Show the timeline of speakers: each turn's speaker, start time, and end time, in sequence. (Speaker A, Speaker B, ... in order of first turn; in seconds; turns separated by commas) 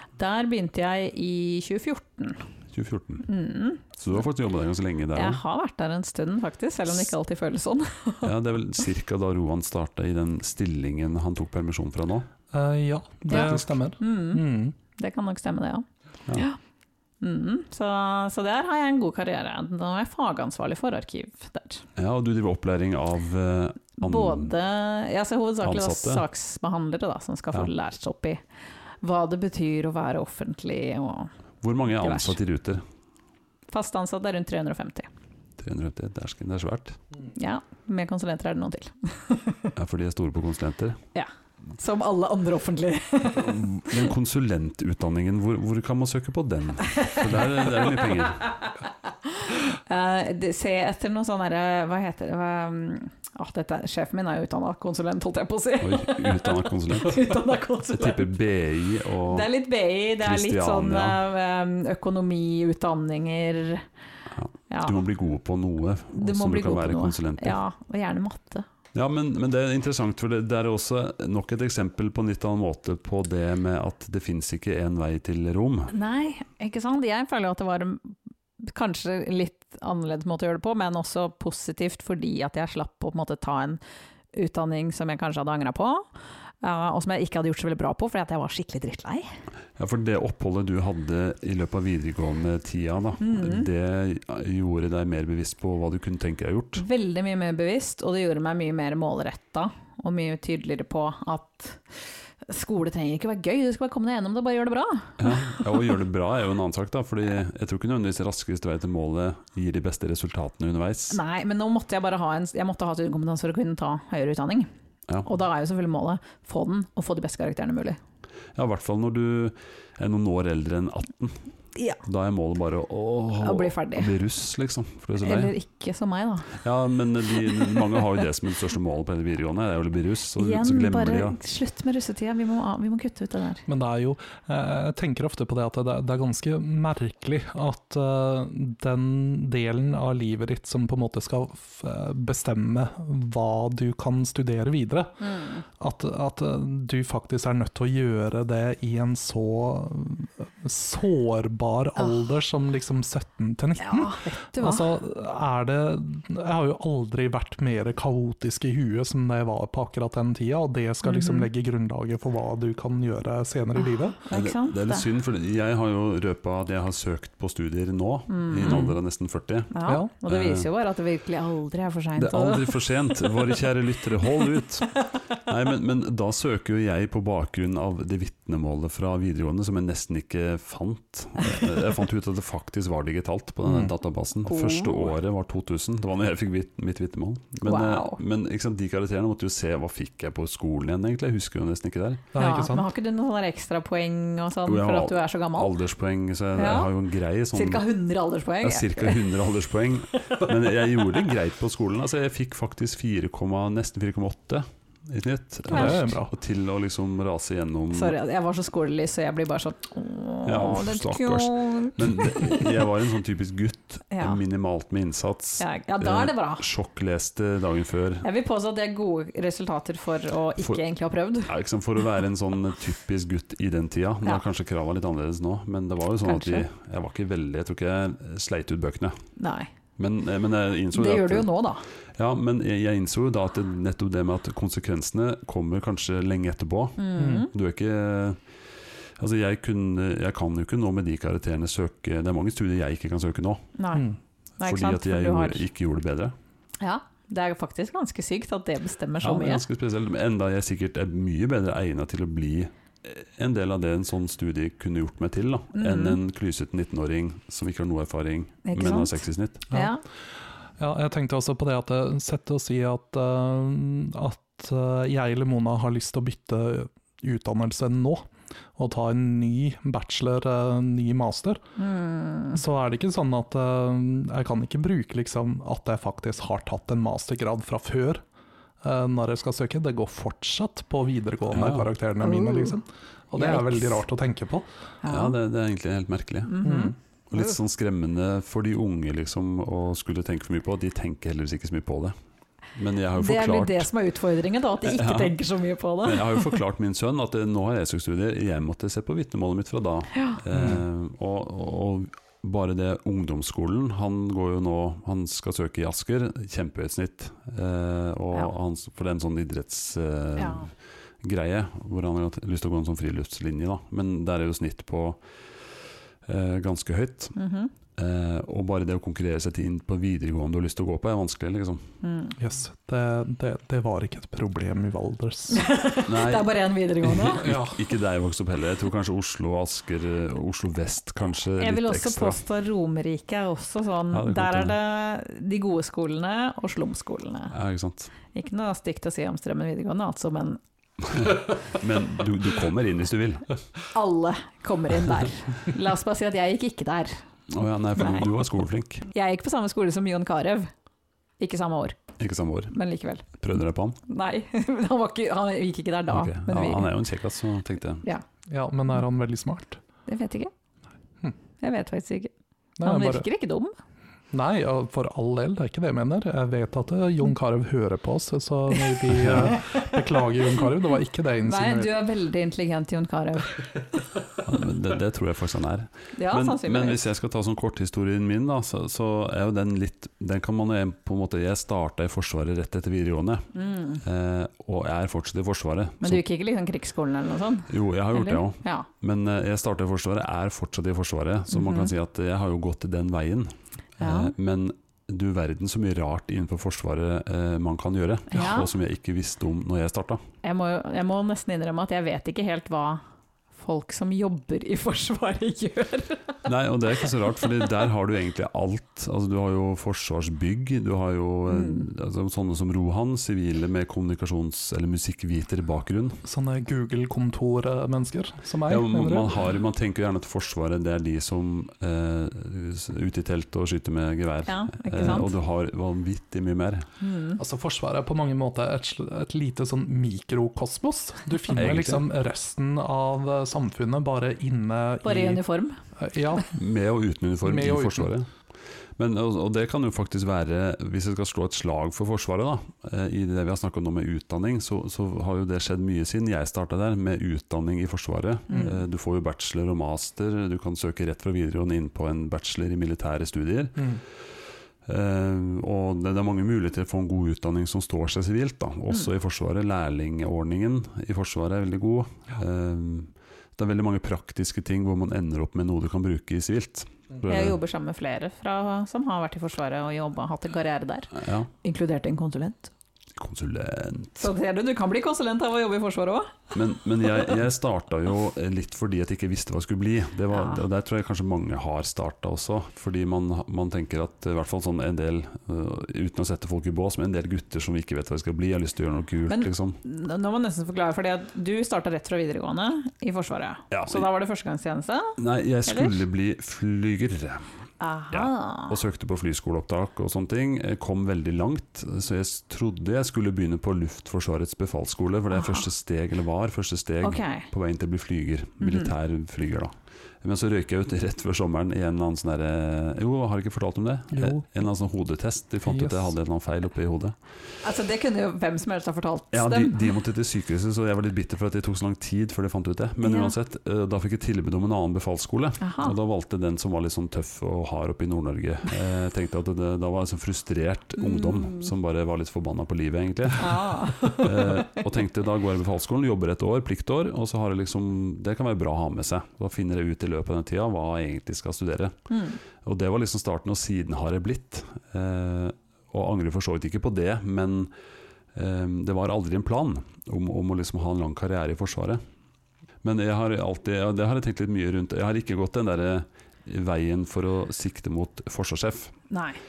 Speaker A: 0.2-2.4, Speaker B: 2.7-3.3, Speaker A: 3.3-3.9, Speaker B: 4.0-5.4, Speaker A: 5.2-8.3, Speaker B: 8.2-12.3, Speaker C: 12.5-14.8, Speaker A: 13.3-14.4, Speaker B: 13.3-13.6, Speaker A: 15.0-16.6, Speaker A: 17.2-21.9, Speaker B: 22.0-24.5, Speaker A: 24.0-28.4, Speaker B: 25.6-26.3, Speaker A: 29.0-31.3, Speaker B: 31.6-32.8, Speaker A: 32.0-32.4, Speaker A: 33.7-35.1, Speaker B: 35.6-37.0, Speaker A: 37.3-39.7, Speaker B: 39.8-41.0, Speaker A: 41.1-44.0, Speaker B: 43.4-48.5, Speaker A: 46.9-58.3, Speaker B: 55.8-57.3, Speaker B: 57.9-59.5, Speaker A: 59.3-63.9, Speaker B: 60.2-61.2, Speaker B: 64.3-67.6, Speaker A: 64.7-65.0, Speaker A: 66.1-68.7, Speaker B: 68.9-75.9, Speaker A: 75.9-83.8, Speaker A: 84.3-86.1, Speaker A: 86.6-89.3, Speaker B: 89.8-96.8, Speaker A: 93.2-93.7, Speaker A: 96.8-105.6, Speaker B: 105.2-111.2, Speaker A: 111.1-114.7, Speaker A: 115.2-118.0, Speaker B: 118.5-121.5, Speaker B: 122.0-125.5, Speaker A: 123.4-124.1, Speaker A: 125.2-126.5, Speaker B: 126.6-131.4, Speaker A: 130.4-133.7, Speaker C: 133.7-145.2, Speaker A: 145.2-145.7, Speaker C: 145.8-164.2, Speaker A: 153.8-154.9, Speaker A: 161.1-161.5, Speaker A: 163.8-165.1, Speaker B: 164.3-169.7, Speaker A: 168.3-169.0, Speaker A: 169.7-172.8, Speaker B: 170.3-170.7, Speaker B: 172.2-192.3, Speaker C: 183.7-183.9, Speaker A: 184.4-185.1, Speaker A: 187.7-188.2, Speaker C: 192.3-192.9, Speaker A: 192.4-195.7, Speaker B: 194.7-197.8, Speaker A: 196.6-196.9, Speaker A: 197.5-199.3, Speaker B: 198.6-208.2, Speaker A: 205.7-206.0, Speaker C: 205.7-206.3, Speaker A: 207.9-212.7, Speaker B: 210.5-218.2, Speaker A: 214.1-214.4, Speaker A: 215.6-216.6, Speaker A: 218.2-221.5, Speaker B: 221.5-229.2, Speaker A: 226.2-226.7, Speaker A: 229.4-229.7, Speaker B: 230.0-231.5, Speaker A: 230.9-231.8, Speaker B: 232.2-238.4, Speaker A: 237.0-237.5, Speaker C: 237.2-237.5, Speaker B: 239.2-243.7, Speaker A: 243.8-244.1, Speaker A: 244.6-245.6, Speaker B: 244.6-246.3, Speaker A: 246.8-249.6, Speaker B: 249.2-259.6, Speaker A: 255.8-256.2, Speaker A: 258.6-259.2, Speaker A: 259.7-260.0, Speaker C: 260.8-268.2, Speaker C: 268.8-271.6, Speaker A: 271.8-272.6, Speaker C: 272.5-278.2, Speaker C: 278.8-284.7, Speaker B: 281.5-281.9, Speaker A: 282.2-282.8, Speaker A: 283.4-284.0, Speaker A: 285.0-285.4, Speaker B: 285.1-286.6, Speaker A: 286.5-287.5, Speaker C: 286.6-286.9, Speaker B: 287.3-292.1, Speaker B: 292.8-293.9, Speaker A: 293.2-296.6, Speaker B: 294.8-295.4, Speaker B: 296.0-310.7, Speaker A: 300.1-300.4, Speaker C: 300.5-300.8, Speaker A: 310.4-310.7, Speaker B: 311.2-315.2, Speaker B: 316.2-317.4, Speaker A: 317.4-317.7, Speaker B: 318.0-321.8, Speaker A: 322.0-322.4, Speaker C: 322.4-325.7, Speaker A: 325.5-327.5, Speaker B: 326.1-332.4, Speaker C: 327.4-327.8, Speaker A: 331.6-337.6, Speaker B: 334.1-334.8, Speaker B: 337.5-338.1, Speaker A: 338.3-340.6, Speaker B: 341.1-343.5, Speaker A: 343.9-347.2, Speaker B: 347.5-349.1, Speaker A: 349.1-350.7, Speaker A: 351.4-352.0, Speaker B: 352.2-352.7, Speaker A: 352.7-353.3, Speaker B: 353.4-354.0, Speaker A: 354.1-356.9, Speaker B: 356.1-358.0, Speaker C: 358.5-359.8, Speaker A: 360.1-360.5, Speaker A: 361.6-362.3, Speaker C: 362.8-363.3, Speaker A: 362.8-363.7, Speaker C: 364.3-372.0, Speaker A: 368.9-369.9, Speaker B: 369.1-369.6, Speaker A: 371.4-374.0, Speaker B: 374.4-386.2, Speaker A: 376.1-377.0, Speaker A: 383.6-384.0, Speaker A: 386.0-388.9, Speaker B: 387.7-400.2, Speaker A: 391.5-391.9, Speaker A: 394.0-394.3, Speaker A: 398.3-398.7, Speaker A: 400.4-403.0, Speaker A: 403.6-406.4, Speaker B: 406.4-416.2, Speaker A: 411.5-411.9, Speaker C: 416.2-419.3, Speaker B: 418.7-426.9, Speaker A: 424.5-425.3, Speaker A: 427.0-427.4, Speaker C: 427.4-435.4, Speaker B: 431.5-432.1, Speaker A: 435.0-435.8, Speaker C: 436.0-436.5, Speaker B: 436.5-438.3, Speaker C: 437.4-438.1, Speaker B: 439.0-454.0, Speaker A: 448.5-448.8, Speaker B: 454.9-467.6, Speaker A: 467.3-472.7, Speaker B: 471.1-471.5, Speaker B: 473.2-474.3, Speaker A: 474.2-476.4, Speaker B: 476.5-489.8, Speaker A: 480.3-480.6, Speaker A: 489.3-496.0, Speaker B: 493.7-494.1, Speaker B: 495.2-497.5, Speaker A: 497.8-498.8, Speaker B: 498.1-517.2, Speaker A: 505.3-505.7, Speaker A: 507.0-507.5, Speaker A: 508.6-508.9, Speaker C: 514.1-514.4, Speaker C: 515.7-516.1, Speaker A: 517.6-519.9, Speaker B: 519.3-542.0, Speaker A: 523.0-523.3, Speaker A: 525.6-526.0, Speaker A: 531.0-531.7, Speaker A: 533.4-534.7, Speaker A: 542.1-542.4, Speaker B: 542.6-547.7, Speaker B: 548.3-552.0, Speaker B: 552.8-559.0, Speaker A: 559.1-559.4